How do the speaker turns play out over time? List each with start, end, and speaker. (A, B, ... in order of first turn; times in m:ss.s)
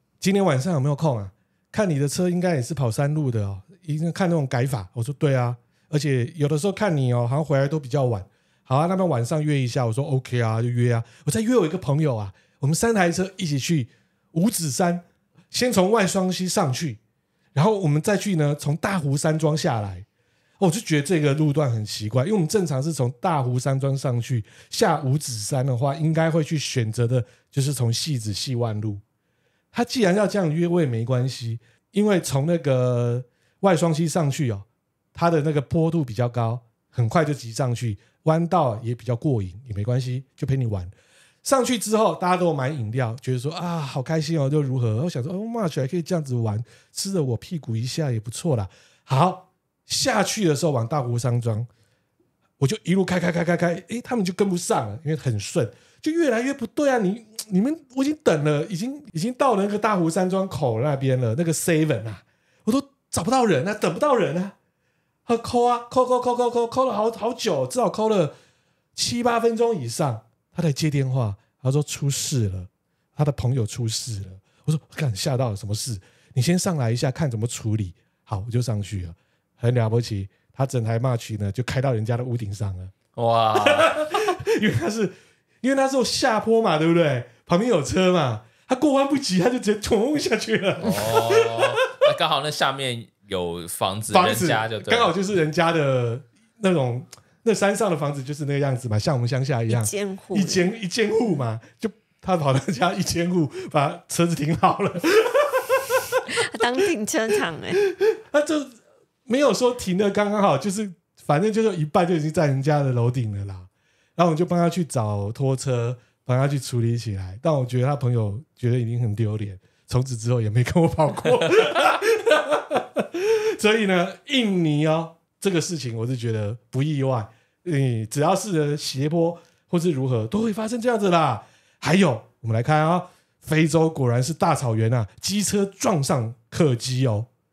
0:00.2-0:17.0 A
0:17.5-0:20.0 A
0:20.6-0:29.0 A
0:29.7-0:40.9 A
0:41.4-0:51.7 A
0:52.6-1:04.5 A
1:05.2-1:08.3 A
1:08.9-1:22.9 A
1:23.2-1:24.2 B
1:23.5-1:32.1 A
1:30.8-1:35.1 B
1:34.1-1:46.2 A
1:39.7-1:40.6 C
1:46.3-1:47.8 C
1:47.9-1:48.7 A
1:49.2-2:17.3 A